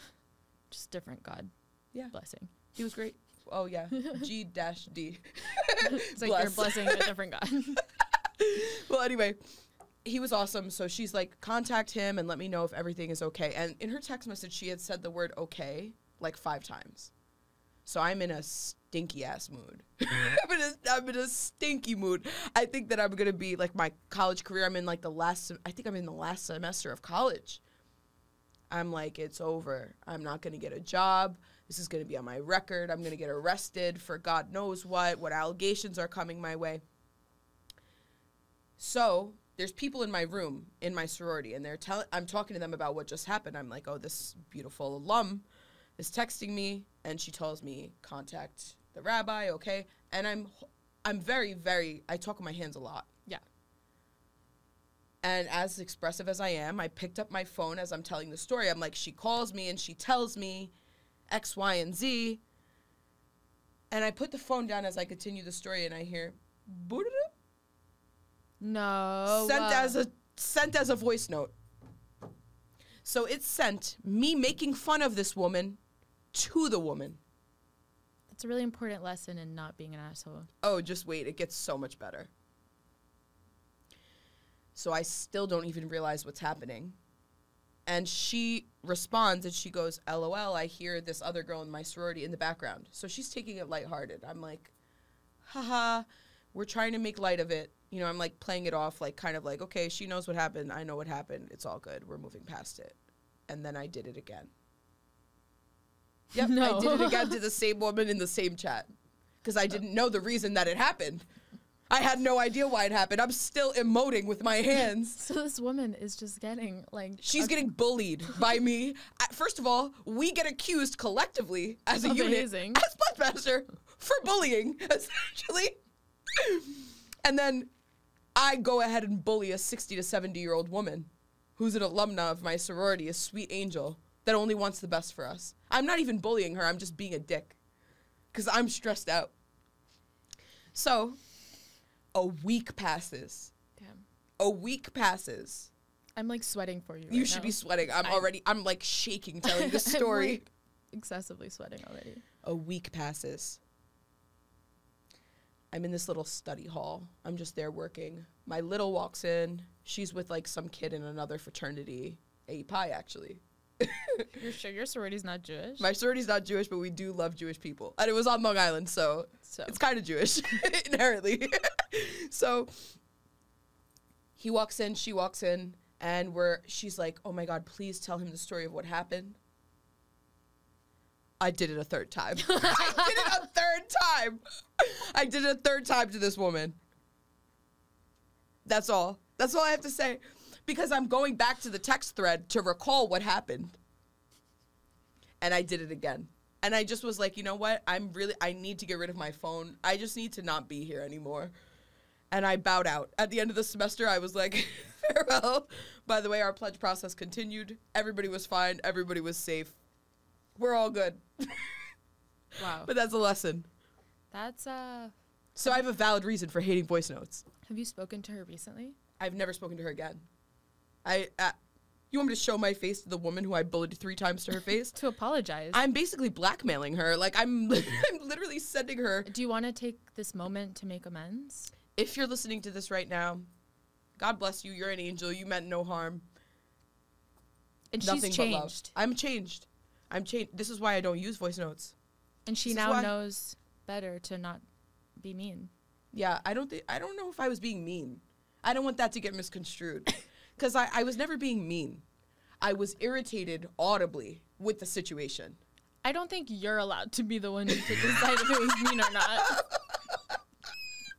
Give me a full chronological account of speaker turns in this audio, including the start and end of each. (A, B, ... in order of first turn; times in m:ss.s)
0:00.7-0:01.5 A
0:02.1-0:02.5 A
0:02.7-0:07.1 B
0:04.0-0:04.2 A
0:05.8-0:07.8 A
0:07.8-0:09.4 B
0:10.0-0:17.1 B
0:17.8-0:27.6 B
0:28.7-0:36.8 B
0:38.8-0:45.4 B
0:46.0-0:53.1 B
0:55.2-1:00.7 B
1:01.3-1:02.4 B
1:03.9-1:07.3 B
1:08.6-1:10.0 A
1:09.3-1:11.5 B
1:13.0-1:15.8 B
1:16.3-1:17.2 B
1:18.3-1:20.5 A
1:20.6-1:22.3 B
1:24.7-1:27.0 B
1:27.8-1:34.7 B
1:35.4-1:44.5 B
1:46.3-1:48.9 B
1:46.4-1:47.4 A
1:49.4-1:51.2 B
1:51.9-1:55.2 B
1:55.2-1:57.7 A
1:57.2-2:05.8 B
2:02.0-2:02.8 A
2:06.3-2:07.7 B
2:08.4-2:17.6 B
2:18.3-2:19.3 B
2:20.7-2:21.2 B
2:22.1-2:23.5 B
2:24.4-2:25.7 B
2:26.2-2:28.3 A
2:27.1-2:30.4 B
2:29.4-2:32.2 A
2:32.4-2:33.6 B
2:35.7-2:44.3 B
2:44.4-2:45.9 A
2:45.8-2:52.9 B
2:49.4-2:49.8 A
2:54.4-2:59.4 B
3:01.4-3:06.8 B
3:02.4-3:03.4 A
3:08.7-3:13.8 B
3:15.4-3:21.5 B
3:22.3-3:29.8 B
3:30.6-3:31.8 B
3:32.6-3:32.9 A
3:32.6-3:33.7 B
3:34.3-3:35.1 A
3:35.6-3:37.4 B
3:37.6-3:39.0 A
3:39.2-3:40.2 B
3:41.0-3:41.6 B
3:42.1-3:44.9 B
3:44.9-3:45.8 A
3:45.7-3:49.3 B
3:49.3-3:51.7 A
3:51.9-3:53.5 B
3:54.2-3:56.3 B
3:57.9-3:58.9 A
3:58.0-4:01.9 B
4:02.5-4:04.6 A
4:02.6-4:03.1 B
4:05.2-4:05.7 A
4:06.1-4:12.0 B
4:12.6-4:15.6 B
4:16.0-4:19.6 A
4:18.8-4:20.4 B